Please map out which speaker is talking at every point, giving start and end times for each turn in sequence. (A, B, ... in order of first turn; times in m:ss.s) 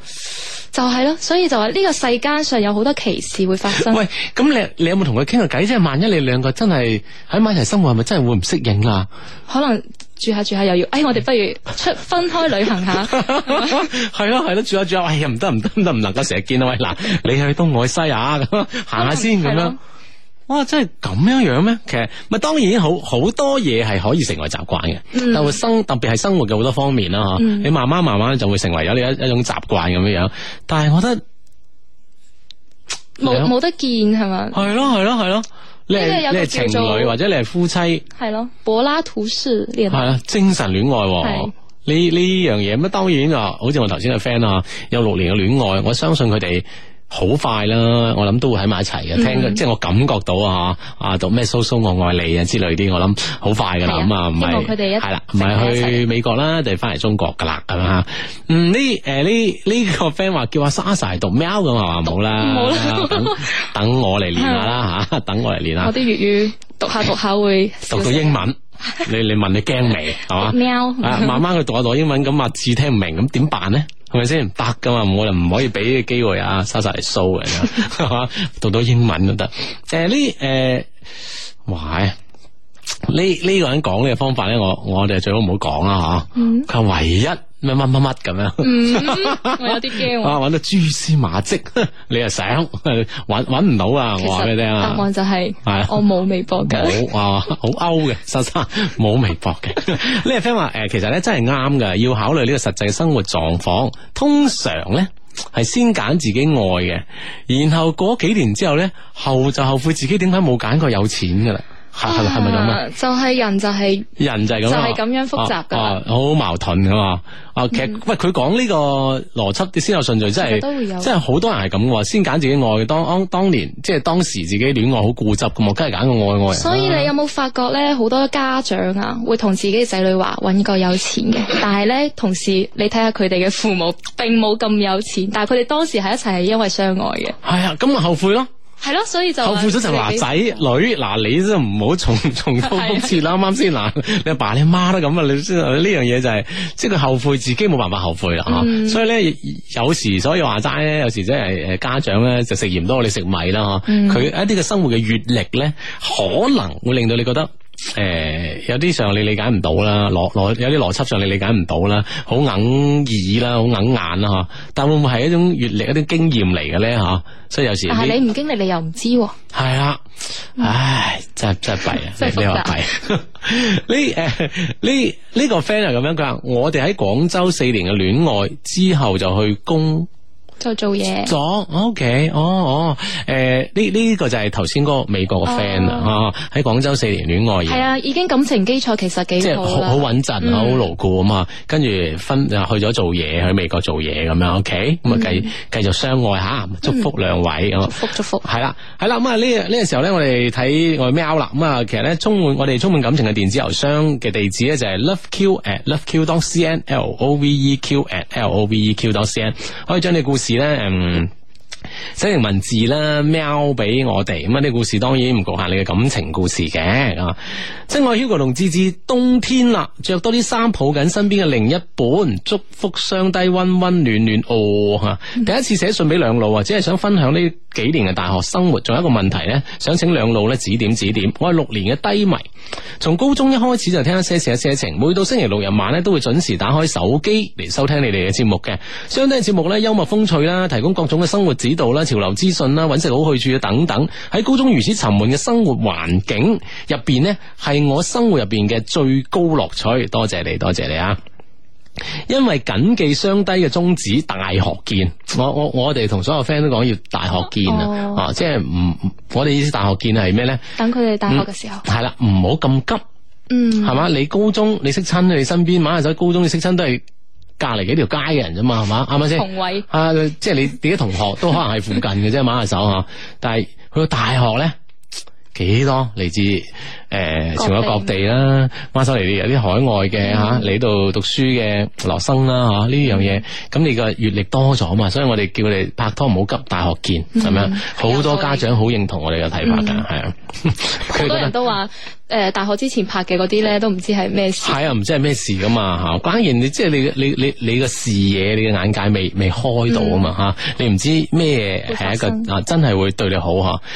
0:00.7-0:04.0 A
0:03.7-0:09.1 B
0:09.5-0:13.8 A
0:13.0-0:19.8 B
0:18.9-0:19.8 A
0:20.5-0:31.2 B
0:25.1-0:25.6 A
0:27.4-0:27.7 A
0:33.2-0:34.7 A
0:33.2-0:33.5 B
0:34.5-0:38.0 B
0:35.9-0:37.1 A
0:38.2-0:40.2 A
0:39.9-1:05.9 B
0:41.2-0:41.5 A
0:49.1-0:49.6 A
0:53.8-0:56.0 A
1:02.0-1:03.7 A
1:04.4-1:04.7 A
1:05.8-1:08.4 A
1:07.9-1:20.9 B
1:10.3-1:11.4 A
1:21.6-1:22.2 B
1:23.0-1:35.1 B
1:26.3-1:26.7 A
1:28.6-1:30.4 A
1:34.2-1:37.0 A
1:35.6-1:36.0 B
1:36.6-1:52.8 B
1:52.0-1:54.1 A
1:54.2-2:07.1 B
1:54.6-1:56.0 A
2:00.4-2:01.1 A
2:06.5-2:17.4 A
2:17.4-2:18.5 B
2:18.8-2:20.5 A
2:19.4-2:48.2 B
2:22.6-2:23.1 A
2:28.5-2:29.0 A
2:33.9-2:34.3 A
2:47.9-2:49.4 A
2:49.5-2:50.0 B
2:50.6-3:00.1 B
2:52.1-2:52.8 A
3:00.6-3:01.3 A
3:01.2-3:07.9 B
3:05.4-3:06.1 A
3:07.6-3:10.8 A
3:09.4-3:31.3 B
3:15.1-3:15.5 A
3:17.8-3:18.4 A
3:32.2-3:52.4 B
3:53.0-4:11.2 B
4:12.3-4:20.6 B
4:17.6-4:18.2 A
4:20.8-4:21.8 A
4:21.3-4:23.0 B
4:23.5-4:24.0 A
4:23.8-4:27.0 B
4:27.6-4:34.7 B
4:29.3-4:29.8 A
4:35.5-4:51.5 B
4:37.6-4:38.1 A
4:40.2-4:40.7 A
4:47.3-4:48.8 A
4:49.6-4:50.0 A
4:51.1-4:54.8 A
4:54.6-5:03.8 B
4:59.9-5:00.3 A
5:01.9-5:02.5 A